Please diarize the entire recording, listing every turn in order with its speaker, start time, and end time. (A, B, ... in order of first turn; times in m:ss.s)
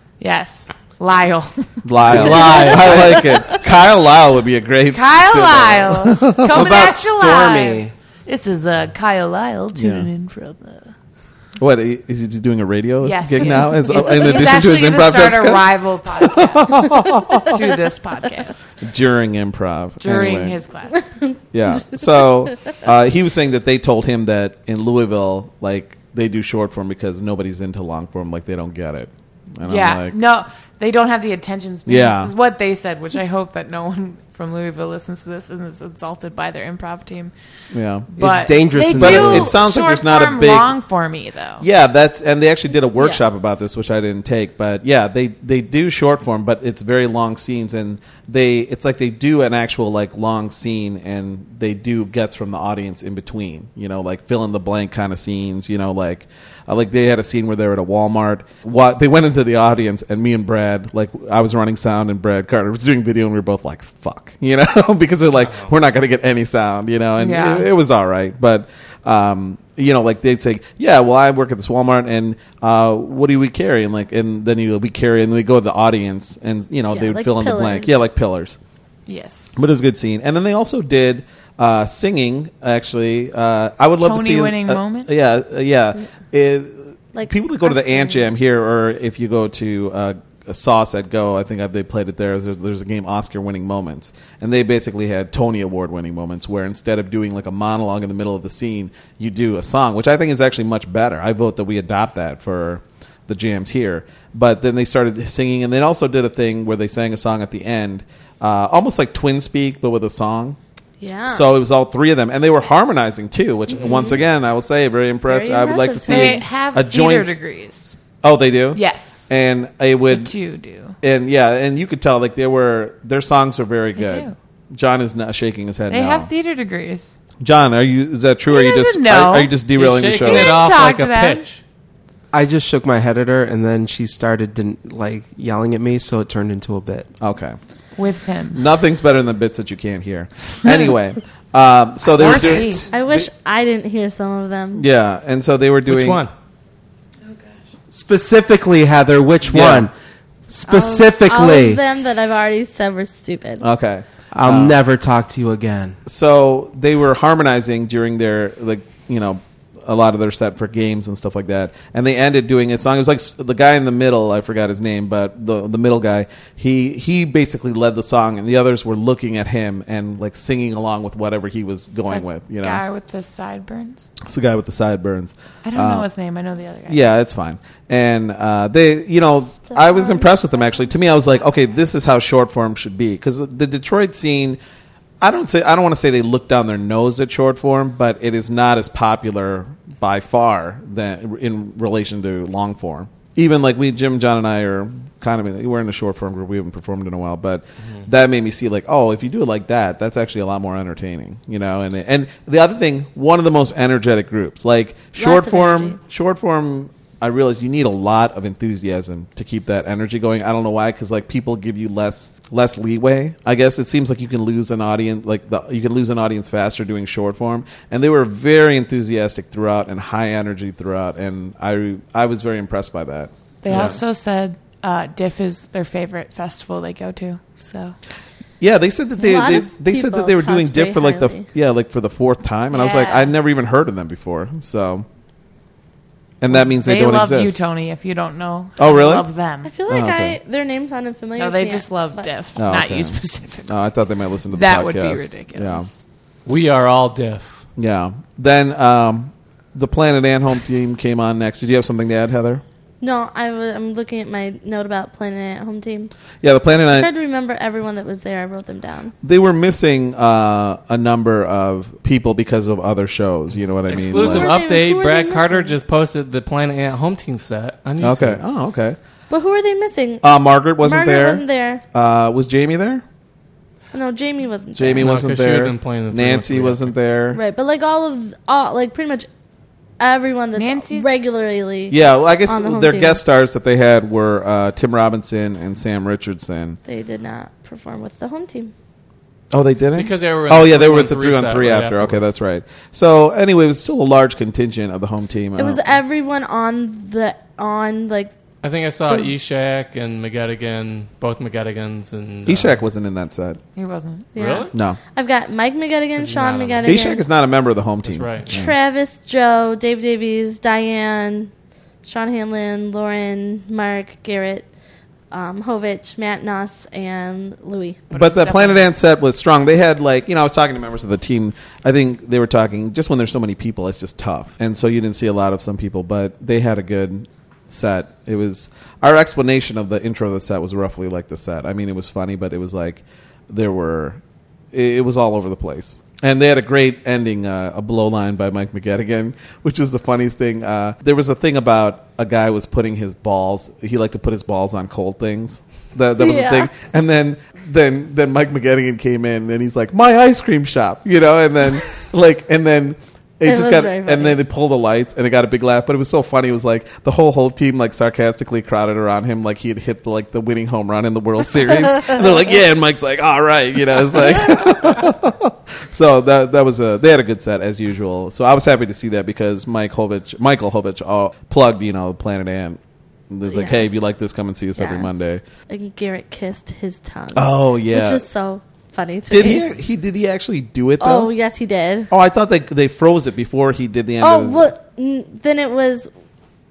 0:00.2-0:03.5 A
0:01.8-0:06.8 B
0:02.1-0:03.2 C
0:04.9-0:10.9 A
0:06.5-0:07.9 D
0:09.7-0:10.1 B
0:11.6-0:17.6 B
0:13.0-0:18.7 A
0:18.8-0:20.6 B
0:20.0-0:21.1 A
0:21.2-0:22.2 E
0:21.5-0:30.2 B
0:29.6-0:37.3 A
0:31.8-0:32.3 B
0:37.7-0:38.1 B
0:38.1-0:41.6 A
0:38.2-0:39.6 D
0:38.9-0:40.8 B
0:41.6-1:18.6 B
0:43.0-0:43.2 E
1:05.4-1:05.7 C
1:07.2-1:07.7 A
1:16.9-1:18.0 E
1:19.1-1:19.6 A
1:19.6-1:50.6 B
1:24.0-1:25.1 A
1:27.1-1:28.0 E
1:51.0-1:51.5 E
1:51.3-1:57.4 B
1:53.8-1:54.2 E
1:55.2-1:56.5 E
1:56.1-1:58.0 A
1:58.2-2:00.3 B
1:58.7-1:59.3 A
2:00.1-2:01.0 A
2:01.0-2:06.3 B
2:03.9-2:04.3 A
2:05.9-2:07.2 A
2:07.4-2:10.6 B
2:08.5-2:09.6 A
2:09.7-2:11.6 C
2:10.2-2:11.4 A
2:12.3-2:17.1 D
2:17.2-2:17.6 B
2:18.0-2:18.6 A
2:18.5-2:23.2 B
2:22.1-2:22.9 A
2:22.2-2:22.9 D
2:22.9-2:24.8 E
2:24.7-2:26.2 B
2:25.8-2:26.3 C
2:27.2-2:27.5 A
2:27.9-2:29.9 D
2:29.4-2:29.9 B
2:30.5-2:31.8 D
2:30.7-2:33.6 E
2:33.6-2:34.8 B
2:34.3-2:36.0 D
2:36.0-2:52.8 B
2:52.1-2:54.1 A
2:54.2-2:56.1 B
2:55.6-2:57.0 A
2:56.9-3:04.6 B
2:59.6-3:00.3 E
3:05.2-3:44.0 B
3:25.2-3:26.0 E
3:43.6-3:48.0 A
3:43.7-3:44.0 C
3:48.6-3:55.0 B
3:49.2-3:51.5 E
3:52.7-3:53.4 A
3:56.4-3:57.6 B
3:56.5-3:59.7 A
3:58.8-3:59.3 B
3:59.6-4:02.3 E
3:59.9-4:00.4 B
4:01.4-4:03.8 A
4:02.6-4:05.9 B
4:04.5-4:05.9 A
4:06.4-4:07.6 C
4:07.8-4:12.6 B
4:13.0-4:16.1 E
4:16.4-4:17.1 B
4:16.9-4:19.1 E
4:19.2-4:24.5 B
4:23.9-4:28.4 C
4:23.9-4:25.8 E
4:28.0-4:29.0 B
4:29.3-4:31.8 E
4:30.2-4:33.0 B
4:33.9-4:35.1 E
4:34.8-4:37.4 B
4:35.0-4:36.9 C
4:37.3-4:39.3 E
4:40.0-4:43.2 E
4:40.6-4:41.3 A
4:41.9-4:46.8 B
4:46.8-4:48.7 E
4:49.5-4:55.9 B
4:50.0-4:52.3 C
4:55.6-4:58.3 E
4:58.6-5:02.8 C
4:59.1-4:59.3 E
5:02.4-5:03.6 B
5:03.7-5:04.3 A
5:04.3-5:07.2 E
5:04.4-5:04.7 C
5:04.7-5:05.0 B
5:06.2-5:07.0 C
5:06.8-5:08.7 B
5:08.0-5:08.6 C
5:08.5-5:11.5 E
5:12.0-5:14.7 E
5:15.3-5:18.1 E
5:18.1-5:18.9 A
5:18.1-5:34.2 B
5:34.7-6:15.4 B
5:46.2-5:46.7 E
5:53.4-5:54.4 E
6:13.5-6:14.0 E
6:14.8-6:19.7 E
6:17.3-6:18.2 B
6:19.3-6:21.3 B
6:21.0-6:22.1 E
6:22.1-6:24.7 B
6:24.2-6:26.1 E